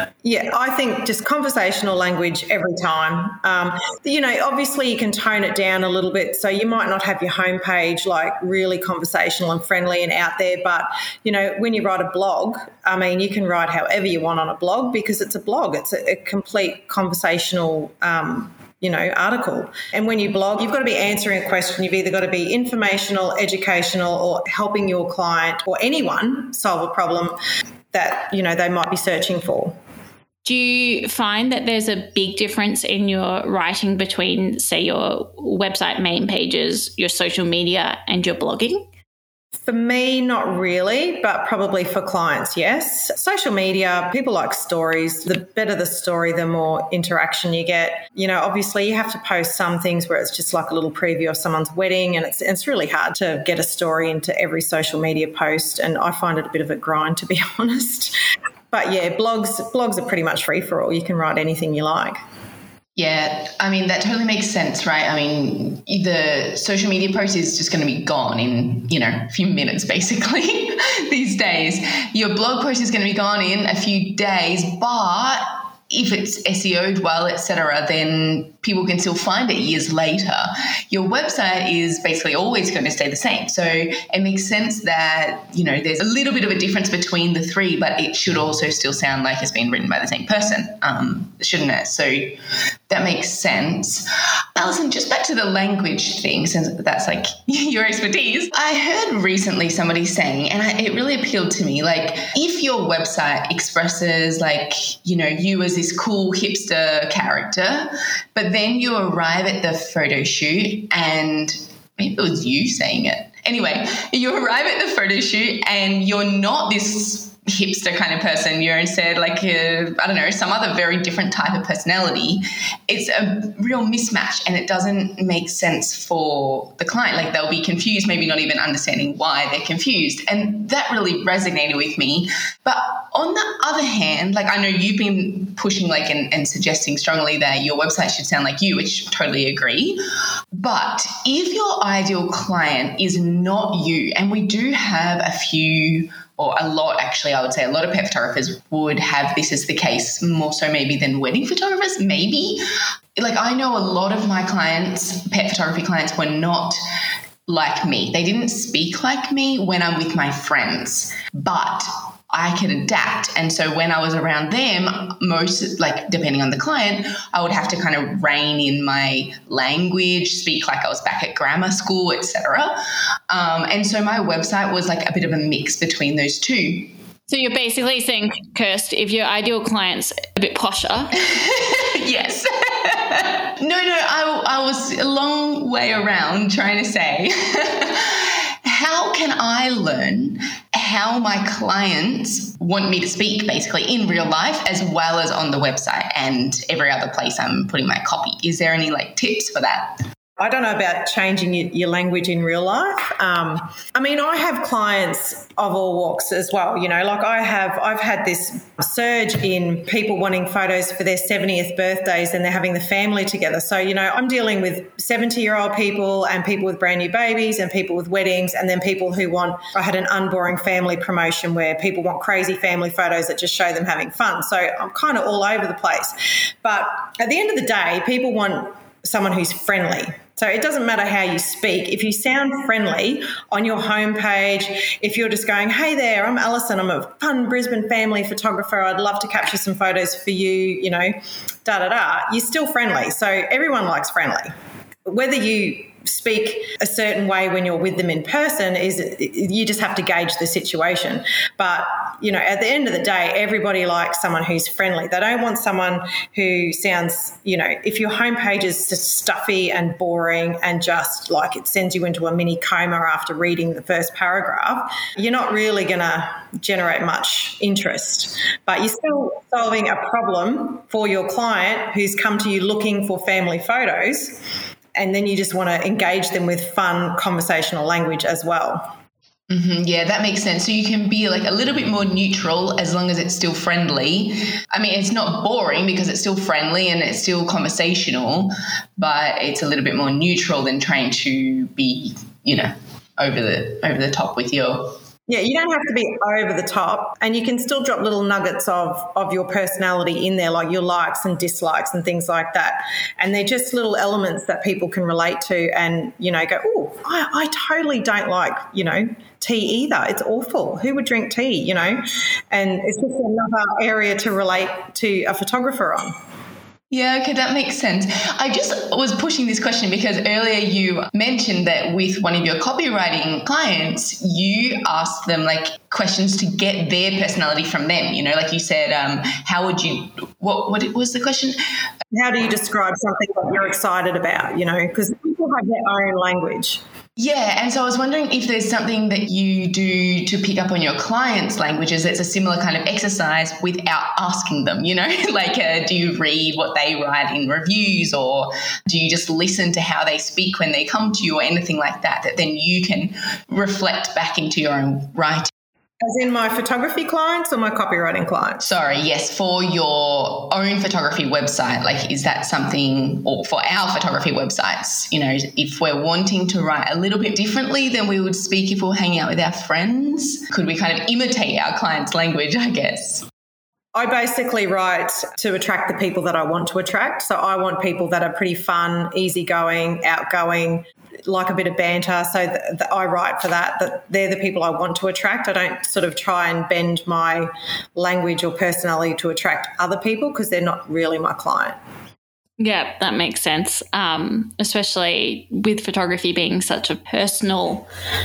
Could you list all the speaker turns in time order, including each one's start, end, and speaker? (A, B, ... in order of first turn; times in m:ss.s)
0:00.2-0:27.4 A
0:27.9-0:29.8 A
0:30.4-0:38.9 B
0:39.7-0:58.2 A
0:58.7-1:02.2 A
1:03.0-1:32.4 C
1:32.9-2:20.0 C
2:20.5-2:32.6 C
2:33.2-2:36.8 C
2:37.5-2:52.8 C
2:53.3-2:56.9 C
2:57.3-3:01.2 B
3:01.2-3:20.0 C
3:20.4-4:04.5 A
4:05.0-4:34.4 A
4:34.9-4:38.9 A
4:39.5-4:55.0 C
4:55.3-5:16.1 A
5:16.9-5:31.6 C
5:32.1-5:36.8 A
5:37.2-5:55.5 C
5:56.0-5:58.6 A
5:58.6-6:13.3 C
6:13.9-6:31.8 A
6:32.6-6:37.9 B